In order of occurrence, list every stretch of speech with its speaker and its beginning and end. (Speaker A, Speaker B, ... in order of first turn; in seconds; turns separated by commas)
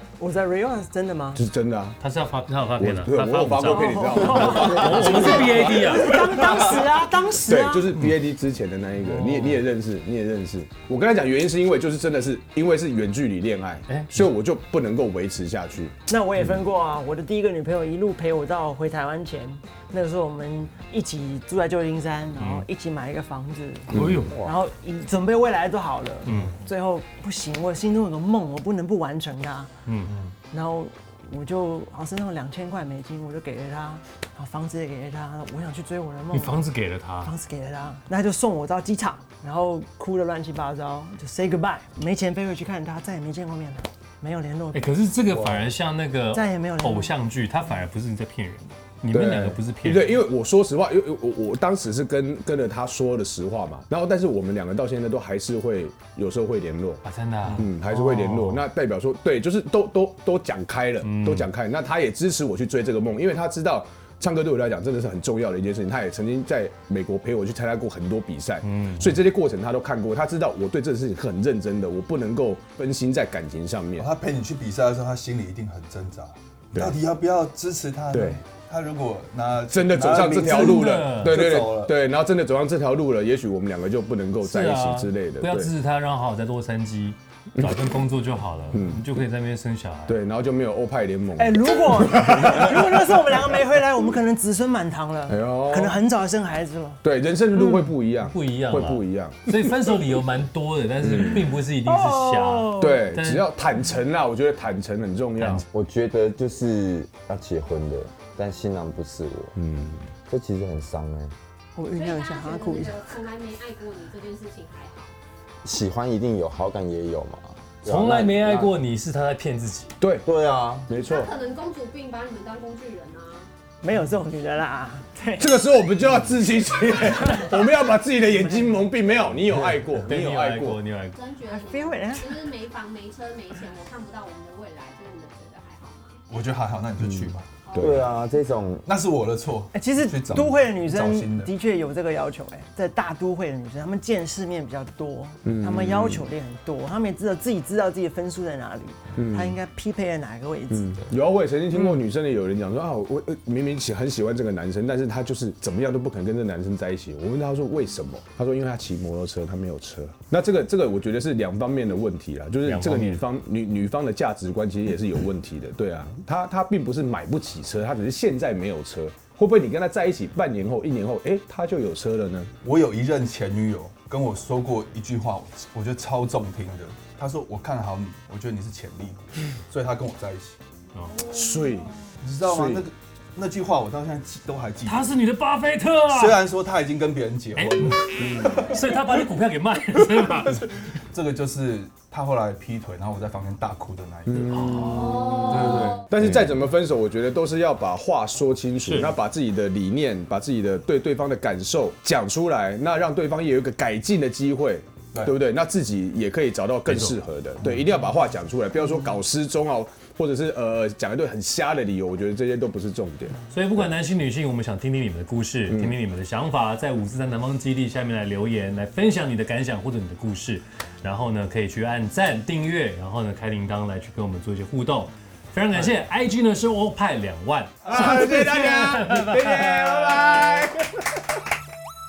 Speaker A: 0.2-1.4, Speaker B: 1.4-2.0, Speaker C: 2.0-6.6, Speaker B: 2.8-6.8, Speaker A: 3.6-7.9, Speaker B: 7.3-15.9, Speaker C: 9.0-9.7, Speaker C: 13.9-14.2, Speaker A: 16.1-29.7, Speaker C: 22.4-22.7, Speaker C: 23.9-24.4, Speaker B: 23.9-24.2, Speaker C: 26.2-26.6, Speaker C: 29.9-30.1, Speaker A: 30.5-36.6, Speaker C: 36.3-37.3, Speaker A: 37.2-45.0, Speaker C: 44.7-50.1, Speaker D: 45.3-45.7, Speaker A: 46.3-47.2, Speaker B: 49.1-74.1, Speaker C: 57.0-58.7, Speaker C: 61.0-61.5, Speaker C: 68.6-69.2, Speaker D: 74.0-81.9, Speaker B: 78.1-78.4, Speaker B: 79.7-85.7, Speaker C: 80.4-81.4, Speaker C: 84.4-90.2, Speaker B: 87.6-88.0, Speaker B: 88.7-89.1, Speaker B: 90.1-93.2, Speaker A: 91.4-97.0, Speaker B: 95.3-96.0, Speaker B: 97.0-100.0, Speaker C: 98.2-103.5, Speaker B: 101.0-101.6, Speaker A: 101.8-103.1, Speaker B: 102.8-105.7, Speaker C: 105.4-105.7, Speaker E: 105.7-109.5, Speaker B: 109.6-110.1, Speaker E: 110.3-111.3, Speaker A: 111.8-113.2, Speaker F: 111.9-115.1, Speaker E: 115.6-118.7, Speaker C: 117.8-120.0, Speaker B: 120.0-120.2, Speaker E: 120.2-120.9, Speaker B: 120.9-121.3, Speaker F: 120.9-123.5, Speaker A: 123.8-125.6, Speaker B: 125.4-130.8, Speaker A: 128.2-128.9, Speaker C: 129.5-131.2, Speaker F: 131.1-136.2, Speaker A: 131.5-132.5, Speaker D: 136.3-137.5, Speaker F: 137.7-138.2, Speaker B: 137.8-138.1, Speaker E: 137.8-138.9, Speaker D: 138.9-141.5, Speaker A: 139.7-151.0, Speaker B: 145.4-146.3, Speaker B: 149.2-149.6, Speaker B: 150.7-172.5, Speaker C: 162.6-163.2, Speaker D: 172.6-180.6, Speaker C: 180.9-181.3, Speaker B: 181.3-181.9, Speaker D: 182.2-185.2, Speaker B: 182.4-182.9, Speaker C: 184.8-186.4, Speaker D: 186.1-188.6, Speaker C: 187.6-190.8, Speaker B: 188.2-188.6, Speaker D: 191.1-196.4, Speaker B: 194.3-195.0, Speaker C: 194.5-195.6, Speaker F: 194.9-196.0, Speaker B: 196.0-213.4, Speaker C: 198.8-199.2, Speaker C: 206.9-207.2, Speaker C: 213.5-230.1, Speaker B: 215.7-216.0, Speaker B: 227.8-231.1